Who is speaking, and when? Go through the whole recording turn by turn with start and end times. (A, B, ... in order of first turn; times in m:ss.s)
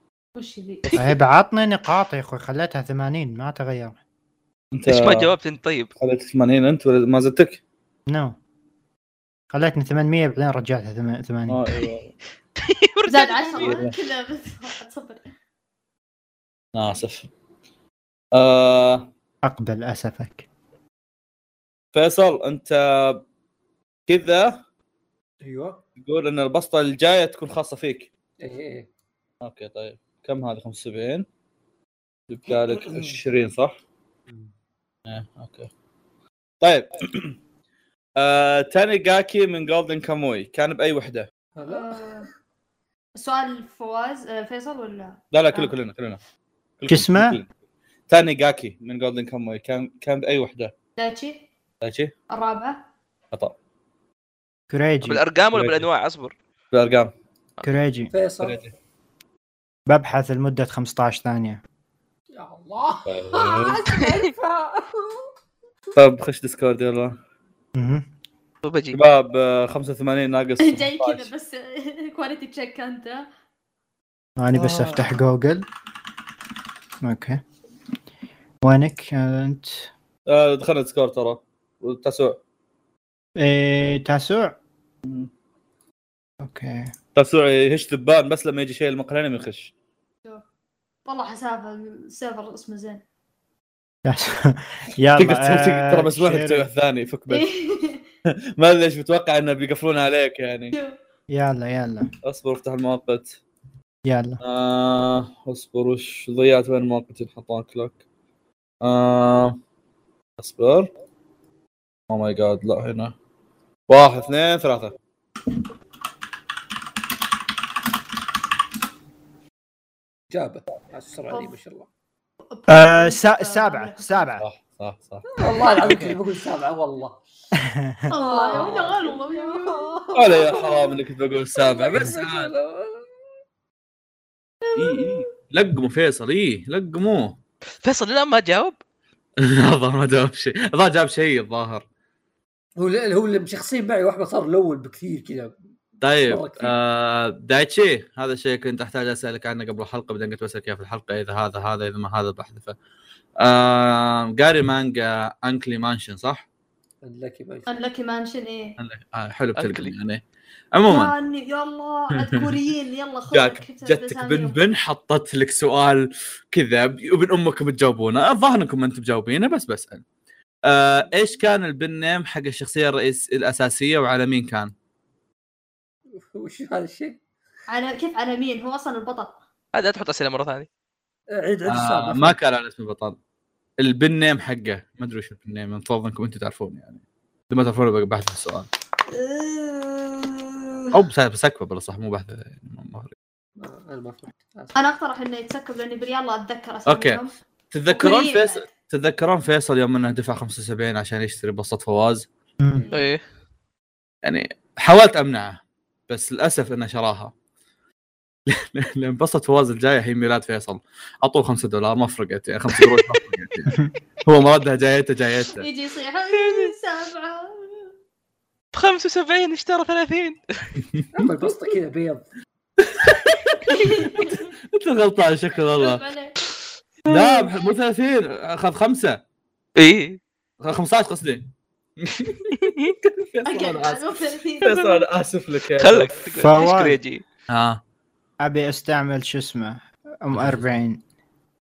0:00.3-0:01.0 A
0:01.0-0:04.0 B
0:04.7-0:05.3 C
0:04.8-0:05.9 D
0:06.0-0:07.6 C
0:08.1-0:08.4 B
0:09.5-0:11.6 B
0:11.5-0:12.1 C
0:12.6-0:13.9 D
0:13.0-0:15.2 A
0:13.6-0:13.9 C
0:16.7-0:17.3 C
0:18.3-0:19.1 C
0:19.4-0:20.4 B
0:21.9-0:23.2 C
0:24.1-0:24.6 C
0:25.4-0:25.8 E
0:26.0-0:28.1 C
0:28.4-0:28.9 E
0:29.4-0:31.2 C
0:32.3-0:33.8 C
0:32.5-0:33.2 E
0:35.1-0:35.7 C
0:36.6-0:37.3 C
0:38.2-0:41.3 C
0:41.6-0:42.2 E
0:41.7-0:42.3 A
0:43.1-0:45.7 A
0:45.3-0:46.2 C
0:46.8-0:47.5 C
0:46.9-0:47.4 B
0:48.1-0:50.7 C
0:51.0-0:51.4 A
0:51.8-0:52.1 C
0:52.3-0:52.8 A
0:54.7-0:55.2 B
0:55.0-0:56.3 D
0:55.5-0:55.8 C
0:56.7-0:57.1 C
0:57.6-0:58.1 B
0:58.1-0:58.6 E
0:58.4-0:58.7 C
0:59.9-1:01.6 B
1:02.3-1:05.2 E
1:03.0-1:03.8 C
1:05.9-1:07.2 C
1:07.7-1:08.0 B
1:08.6-1:09.0 D
1:08.9-1:11.3 C
1:10.6-1:13.3 A
1:14.4-1:15.7 B
1:17.0-1:17.4 B
1:18.6-1:19.9 B
1:20.3-1:22.4 C
1:23.4-1:24.6 B
1:26.4-1:26.9 B
1:27.1-1:29.7 C
1:31.0-1:33.0 A
1:34.0-1:36.7 B
1:35.2-1:37.4 C
1:37.3-1:38.0 A
1:38.3-1:40.8 C
1:40.7-1:41.0 A
1:41.3-1:42.1 B
1:42.2-1:43.4 C
1:44.0-1:44.4 B
1:44.4-1:48.0 C
1:48.8-1:49.6 C
1:50.4-1:50.9 C
1:52.1-1:53.1 C
1:53.9-1:54.9 C
2:00.3-2:01.9 E
2:01.3-2:01.6 A
2:02.5-2:04.3 A
2:02.7-2:04.4 B
2:04.4-2:06.2 C
2:05.3-2:07.2 E
2:07.5-2:08.1 B
2:08.1-2:10.0 A
2:08.1-2:11.0 E
2:10.1-2:12.5 C
2:11.5-2:13.1 E
2:14.6-2:15.3 A
2:14.7-2:17.4 C
2:17.8-2:18.8 D
2:19.4-2:21.8 C
2:22.8-2:25.5 E
2:26.0-2:32.7 C
2:26.3-2:26.7 E
2:33.4-2:36.4 C
2:37.0-2:37.7 E
2:37.7-2:38.8 A
2:38.8-2:40.2 C
2:39.6-2:39.9 D
2:40.7-2:41.1 C
2:40.9-2:44.6 A
2:42.2-2:42.5 C
2:43.3-2:50.0 C
2:50.6-2:54.7 C
2:56.2-2:57.2 E
2:57.7-2:59.3 A
2:59.7-3:00.7 D
3:01.3-3:02.4 E
3:01.7-3:03.2 C
3:03.8-3:08.7 C
3:09.1-3:11.0 A
3:10.9-3:13.1 C
3:13.6-3:14.7 E
3:14.7-3:17.4 A
3:16.8-3:22.3 C
3:17.9-3:18.7 A
3:22.6-3:22.9 B
3:22.8-3:23.1 A
3:22.9-3:23.2 D
3:24.2-3:27.3 C
3:28.5-3:35.7 C
3:35.6-3:37.9 A
3:36.4-3:36.7 D
3:38.7-3:40.8 D
3:41.1-3:42.2 E
3:42.8-3:46.0 C
3:43.7-3:44.5 A
3:45.8-3:46.4 A
3:47.1-3:49.2 C
3:47.2-3:47.4 D
3:49.8-3:50.2 D
3:50.6-3:51.5 C
3:52.0-3:56.1 C
3:52.6-3:52.9 D
3:53.4-3:55.1 A
3:55.8-3:57.2 D
3:56.4-3:57.0 B
3:57.5-3:57.8 C
3:58.4-4:01.0 B
4:00.3-4:00.7 C